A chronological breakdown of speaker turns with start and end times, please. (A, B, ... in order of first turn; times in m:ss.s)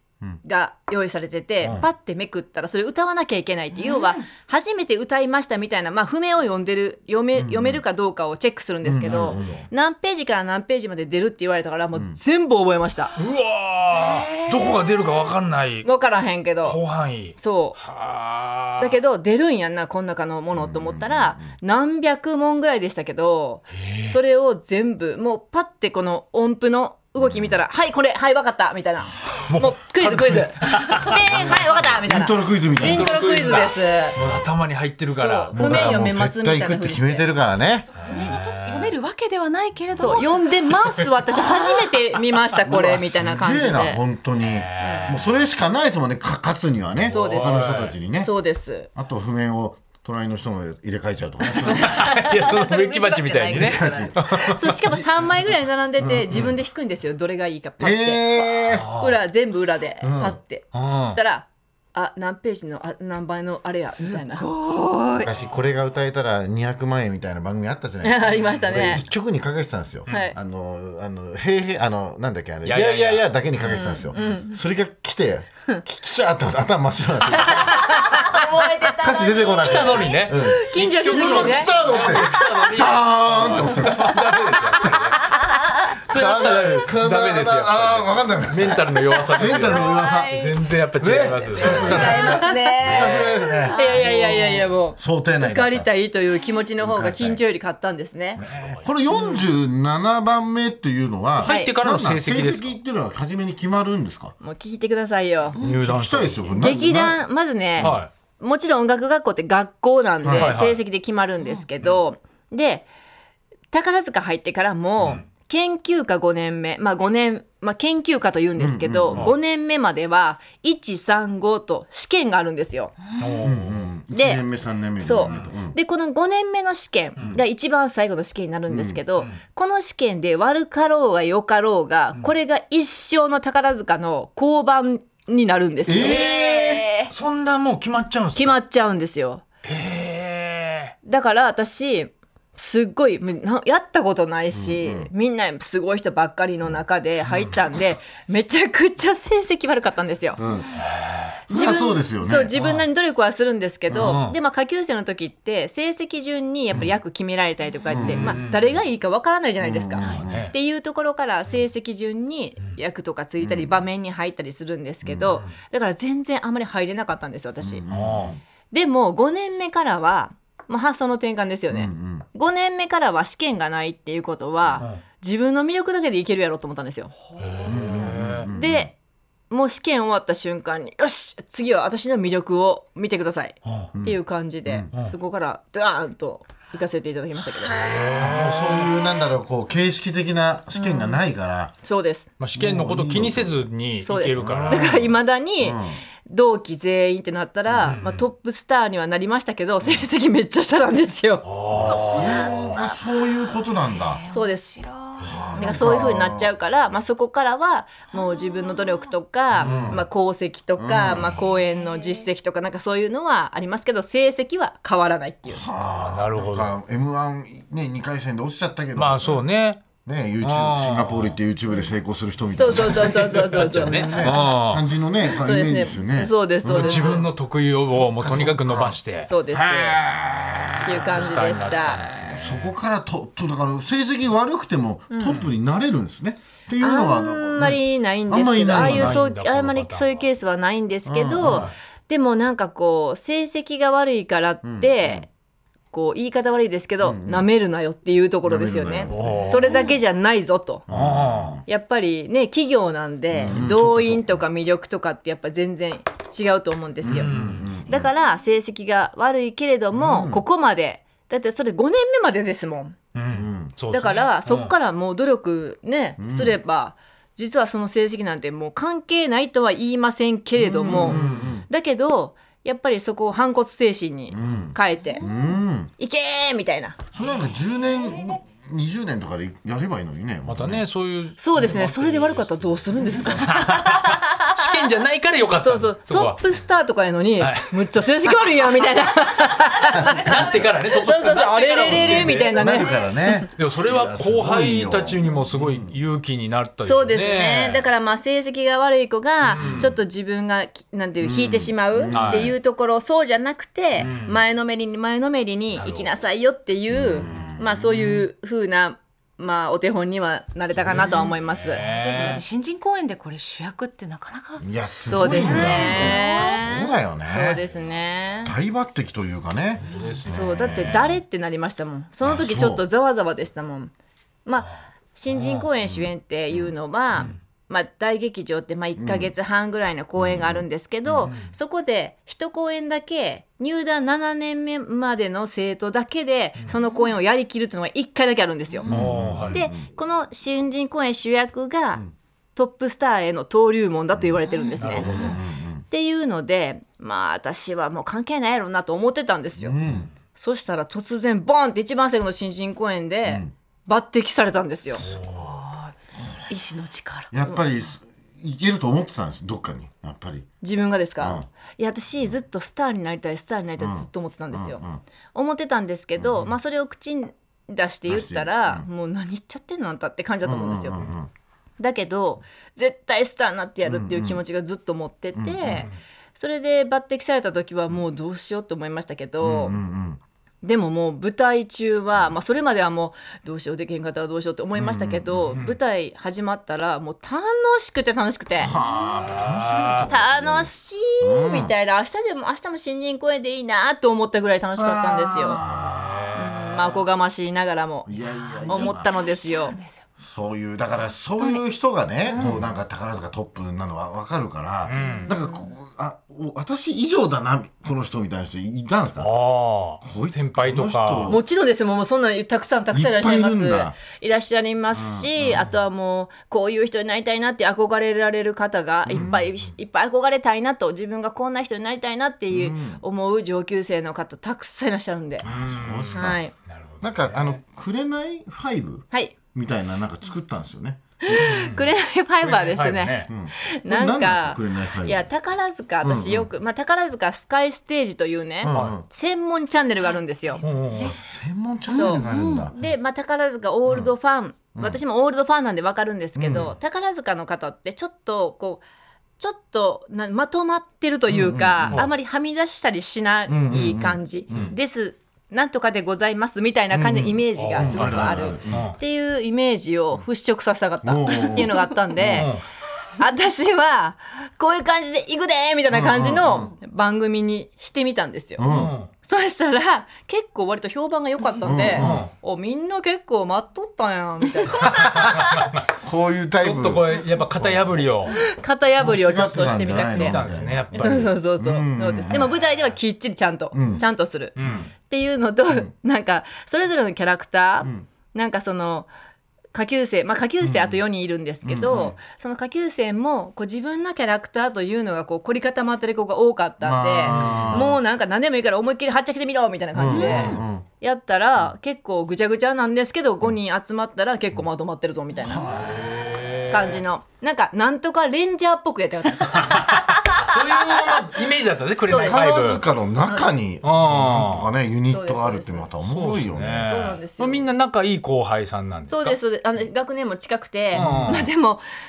0:00.4-0:13.2 A
0:03.8-0:04.1 B
0:07.4-0:07.8 C
0:08.8-0:09.6 C
0:09.1-0:09.5 D
0:13.2-0:15.9 D
0:14.2-0:14.7 B
0:15.8-0:16.8 A
0:16.6-0:18.9 D
0:17.4-0:17.8 A
0:18.8-0:34.2 A
0:20.6-0:21.5 C
0:23.8-0:24.2 D
0:27.2-0:27.6 C
0:29.4-0:31.3 D
0:31.2-0:33.2 C
0:32.8-0:36.1 D
0:35.1-0:37.3 A
0:35.5-0:37.9 C
0:38.0-0:40.5 B
0:38.0-0:38.9 D
0:40.0-0:44.0 A
0:42.7-0:43.2 D
0:42.8-0:48.3 C
0:44.4-0:45.3 D
0:44.8-0:45.1 A
0:47.0-0:48.0 D
0:47.1-0:48.9 A
0:49.0-0:52.1 C
0:51.7-1:05.3 A
0:51.7-0:54.7 D
0:53.5-0:54.2 C
0:56.0-0:56.6 C
0:57.8-0:58.9 C
0:58.7-0:59.2 D
1:00.0-1:00.4 C
1:00.7-1:01.2 D
1:04.4-1:04.9 B
1:05.2-1:24.8 C
1:08.0-1:09.0 A
1:10.1-1:10.4 A
1:12.6-1:13.3 D
1:13.6-1:14.6 A
1:17.4-1:22.2 A
1:19.6-1:25.3 D
1:26.1-1:33.2 D
1:26.1-1:30.4 C
1:29.5-1:30.2 A
1:31.0-1:35.9 C
1:31.5-1:38.4 A
1:32.0-1:32.4 B
1:33.6-1:34.0 B
1:36.8-1:37.4 C
1:38.4-1:44.4 C
1:38.4-1:38.9 D
1:39.1-1:39.4 A
1:41.4-1:42.8 D
1:41.4-1:41.7 A
1:44.4-1:45.6 A
1:45.6-1:46.6 D
1:45.6-1:47.2 C
1:46.5-1:52.9 A
1:47.8-1:48.1 D
1:50.2-1:50.6 C
1:50.3-1:50.8 D
1:53.7-2:03.0 A
1:58.6-1:59.3 C
2:03.2-2:03.8 D
2:03.4-2:05.8 C
2:04.1-2:04.4 A
2:05.0-2:17.1 A
2:05.2-2:05.5 D
2:08.7-2:09.0 C
2:15.9-2:16.8 C
2:16.0-2:16.3 D
2:17.1-2:18.6 D
2:18.4-2:19.4 A
2:19.6-2:20.9 D
2:21.0-2:30.4 A
2:24.5-2:25.1 C
2:30.4-2:30.8 C
2:30.8-2:31.4 D
2:31.5-2:32.5 C
2:31.5-2:47.8 A
2:32.6-2:32.8 D
2:33.9-2:34.2 C
2:34.0-2:34.4 D
2:37.9-2:38.4 C
2:38.0-2:38.7 D
2:39.6-2:40.5 C
2:40.0-2:40.5 D
2:43.4-2:43.8 C
2:45.0-2:45.4 C
2:47.6-2:48.4 C
2:47.9-2:48.4 D
2:48.7-2:57.1 A
2:51.7-2:52.3 C
2:57.4-2:58.5 D
2:57.7-2:58.9 C
2:58.5-2:58.9 A
2:59.5-3:07.8 A
3:03.6-3:03.9 D
3:03.9-3:04.9 C
3:07.7-3:08.9 D
3:07.8-3:11.7 C
3:10.8-3:11.2 A
3:11.8-3:12.3 A
3:12.4-3:15.0 D
3:12.6-3:13.6 C
3:14.0-3:21.5 A
3:14.4-3:16.0 C
3:17.8-3:18.2 D
3:21.4-3:22.6 D
3:21.7-3:24.2 C
3:21.8-3:23.0 B
3:23.9-3:25.7 B
3:24.3-3:24.7 A
3:25.2-3:26.5 C
3:25.6-3:35.6 A
3:29.6-3:30.0 C
3:29.6-3:30.0 D
3:30.8-3:31.4 C
3:35.5-3:39.4 C
3:35.9-3:36.7 D
3:39.0-3:39.8 D
3:40.0-3:47.3 C
3:40.4-3:41.4 D
3:42.6-3:44.5 A
3:42.9-3:44.8 D
3:45.3-3:47.3 A
3:46.6-3:49.3 D
3:47.9-3:51.5 C
3:49.3-3:50.0 A
3:50.7-3:52.7 D
3:50.8-3:52.2 A
3:52.2-3:59.2 C
3:55.1-3:55.4 A
3:56.8-4:05.3 A
3:58.7-4:00.2 D
4:01.1-4:01.7 C
4:01.4-4:01.7 D
4:04.6-4:05.2 C
4:05.9-4:10.8 A
4:07.0-4:07.5 C
4:08.4-4:09.7 C
4:09.1-4:09.8 D
4:10.9-4:11.6 C
4:10.9-4:11.6 D
4:11.7-4:23.0 A
4:13.3-4:14.4 C
4:17.0-4:18.1 C
4:17.1-4:17.6 D
4:19.9-4:20.4 C
4:23.2-4:24.7 D
4:23.3-4:23.7 C
4:23.9-4:35.3 A
4:26.2-4:26.6 C
4:30.6-4:31.7 C
4:30.9-4:31.6 D
4:34.3-4:35.9 C
4:36.0-4:37.0 A
4:37.1-4:40.8 C
4:40.5-4:46.4 D
4:41.4-4:44.5 A
4:45.6-4:53.4 A
4:47.4-4:47.7 D
4:49.9-4:52.8 D
4:50.0-4:50.4 C
4:51.8-4:55.9 C
4:53.6-4:57.9 D
4:56.8-5:11.8 A
4:59.4-5:00.0 D
4:59.6-4:59.9 C
5:01.2-5:02.6 C
5:02.1-5:02.5 D
5:04.0-5:04.4 D
5:05.7-5:06.1 D
5:06.9-5:08.2 C
5:10.8-5:12.4 D
5:11.8-5:14.7 B
5:14.6-5:17.6 C
5:15.1-5:18.5 A
5:15.2-5:16.6 B
5:18.4-5:21.0 C
5:19.8-5:21.0 D
5:20.3-5:23.9 A
5:22.2-5:22.8 C
5:24.5-5:38.9 A
5:25.3-5:25.7 D
5:25.8-5:26.7 C
5:29.0-5:29.3 C
5:30.2-5:30.6 C
5:31.2-5:31.5 D
5:38.9-5:39.6 D
5:38.9-5:39.9 C
5:39.5-5:42.0 A
5:42.6-5:45.3 A
5:44.5-5:45.4 B
5:44.8-5:45.4 D
5:44.8-5:45.8 C
5:45.9-5:49.8 A
5:49.6-5:50.1 C
5:50.4-5:55.1 A
5:53.3-5:53.5 C
5:55.3-5:55.9 B
5:56.5-5:57.3 B
5:57.3-6:00.5 C
6:00.6-6:04.8 A
6:01.2-6:01.5 C
6:03.8-6:05.0 C
6:05.3-6:11.0 A
6:06.2-6:06.5 C
6:08.1-6:08.9 C
6:10.4-6:11.3 C
6:11.8-6:19.8 A
6:13.8-6:14.4 C
6:15.4-6:15.9 C
6:15.6-6:15.9 D
6:19.4-6:20.2 C
6:20.6-6:28.8 A
6:24.8-6:25.6 C
6:28.6-6:31.7 C
6:28.7-6:30.1 D
6:30.1-6:35.6 A
6:34.8-6:36.4 C
6:35.6-6:36.5 D
6:36.3-6:38.1 A
6:38.1-6:39.1 C
6:38.3-6:40.0 B
6:38.6-6:39.8 A
6:40.2-6:49.3 C
6:42.3-6:42.6 B
6:44.9-6:45.3 D
6:45.0-6:45.7 A
6:49.2-6:51.4 D
6:50.0-6:51.4 C
6:51.3-7:05.5 A
6:52.9-6:54.0 C
6:54.9-6:55.7 C
6:59.1-6:59.5 C
7:02.5-7:03.0 C
7:05.4-7:06.4 C
7:05.4-7:07.6 D
7:06.1-7:06.5 A
7:07.0-7:11.5 C
7:11.2-7:20.6 A
7:11.3-7:11.9 D
7:12.4-7:13.3 D
7:13.3-7:15.3 C
7:16.0-7:16.5 C
7:18.6-7:19.0 C
7:18.7-7:19.0 D
7:20.6-7:21.2 D
7:21.1-7:22.8 C
7:21.9-7:22.7 B
7:21.9-7:28.8 A
7:24.8-7:25.0 C
7:26.4-7:26.8 C
7:29.4-7:42.6 A
7:31.3-7:32.1 C
7:33.5-7:34.7 C
7:36.9-7:38.9 C
7:37.6-7:39.0 D
7:41.0-7:42.5 C
7:42.2-7:42.6 D
7:43.2-7:48.6 A
7:45.9-7:46.7 C
7:48.6-7:49.0 C
7:48.7-7:49.1 D
7:49.2-7:55.4 A
7:51.6-7:52.3 C
7:51.9-7:52.3 D
7:54.9-7:55.9 D
7:55.0-7:58.1 C
7:56.6-7:58.4 D
7:58.3-8:09.1 A
7:59.0-8:02.6 C
7:59.9-8:01.4 D
8:03.7-8:04.0 C
8:04.6-8:04.9 D
8:09.7-8:25.7 A
8:10.6-8:11.0 C
8:11.6-8:12.2 C
8:16.8-8:18.0 C
8:17.2-8:17.9 D
8:19.9-8:20.9 C
8:20.1-8:20.6 B
8:25.4-8:26.1 C
8:25.7-8:27.0 D
8:26.7-8:30.4 A
8:29.5-8:32.8 D
8:32.1-8:37.0 C
8:32.1-8:32.5 A
8:33.8-8:34.7 D
8:35.1-8:35.9 A
8:36.0-8:39.4 D
8:36.8-8:37.6 A
8:39.1-8:41.8 A
8:40.9-8:41.5 D
8:41.0-8:41.4 C